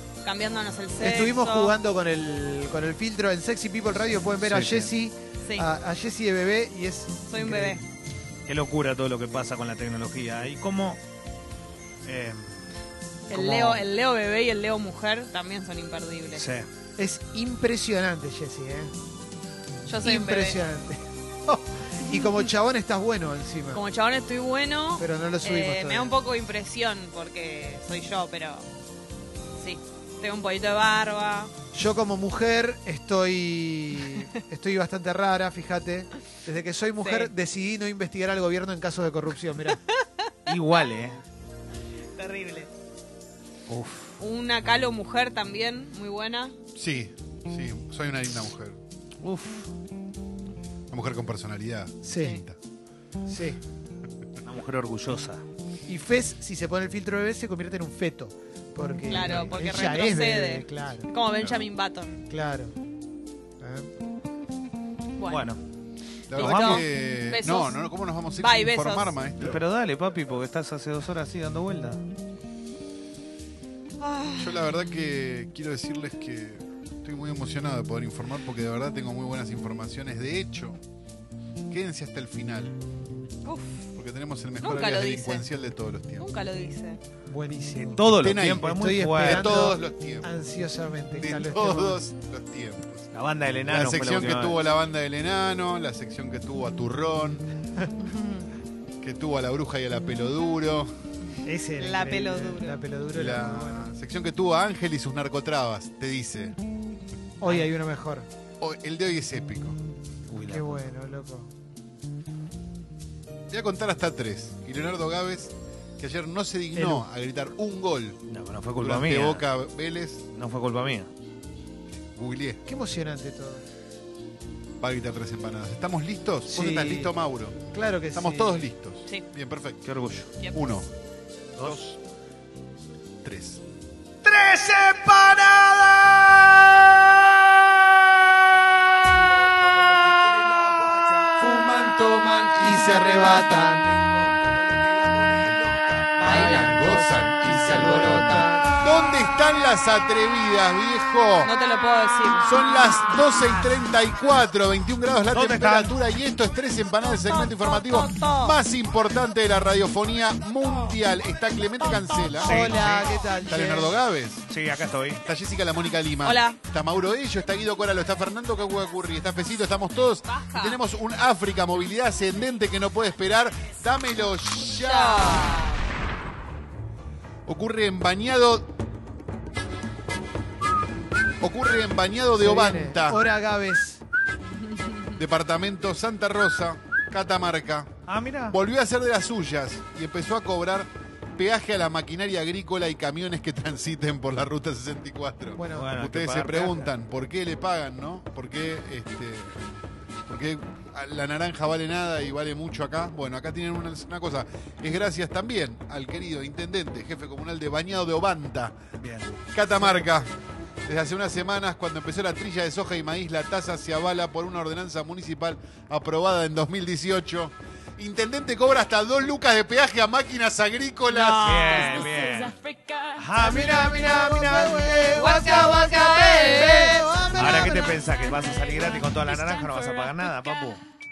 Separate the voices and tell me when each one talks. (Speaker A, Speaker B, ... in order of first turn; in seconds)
Speaker A: 0.2-1.7, 7.3-7.8, 13.3-16.4, 19.9-20.6, 22.1-22.3, 23.7-28.6, 29.6-31.5, 37.0-37.3, 39.9-40.5, 42.1-42.7, 44.2-46.5, 59.1-62.2, 65.2-65.4, 66.3-67.7, 68.3-69.2, 74.0-74.7, 83.4-83.8, 84.6-85.5, 86.2-87.0, 98.0-98.5, 101.8-102.8, 146.3-146.7, 151.4-152.5, 157.2-158.6, 166.2-166.6, 170.3-170.8, 174.7-175.8, 221.1-222.0, 225.2-227.0
Speaker B: 1.0-7.8, 13.3-13.8, 17.0-18.9, 20.0-23.8, 25.0-26.1, 31.7-39.8, 52.0-52.4, 53.3-53.6, 55.9-61.1, 62.3-62.7, 63.6-63.9, 87.3-88.0, 88.8-92.0, 101.4-103.9, 107.4-108.3, 110.4-111.5, 116.7-117.0, 122.7-123.6, 126.5-127.1, 127.7-128.6, 141.4-144.0, 146.2-148.8, 162.4-163.9, 182.4-184.0, 195.6-195.9, 223.4-228.0
Speaker C: 4.4-4.9, 8.5-11.0, 12.0-12.7, 16.3-16.7, 40.5-41.2, 43.7-44.1, 49.2-49.7, 54.4-55.4, 59.2-59.5, 65.3-65.6, 66.4-66.8, 69.4-72.0, 87.7-89.5, 93.1-94.6, 110.3-110.8, 118.3-119.5, 120.3-121.1, 129.8-130.3, 134.2-138.1, 155.3-156.0, 162.4-163.1, 164.5-165.2, 188.1-188.6, 195.7-196.9, 209.0-210.0, 221.4-222.6, 223.1-225.1, 227.4-230.8
Speaker D: 46.8-48.8, 50.9-52.5, 66.3-69.6, 74.4-80.8, 81.7-82.7, 84.0-86.3, 88.1-90.3, 91.2-93.1, 93.7-97.5, 99.0-100.9, 103.1-106.6, 108.6-109.8, 113.5-118.2, 118.8-120.3, 122.2-122.6, 124.8-129.9, 130.5-130.9, 131.6-132.0, 133.2-133.6, 146.2-151.5, 152.4-162.7, 163.5-164.5, 165.2-175.6, 177.4-178.7, 181.4-183.2, 185.2-187.9, 188.5-199.6, 200.3-208.7, 209.5-210.3, 210.8-221.7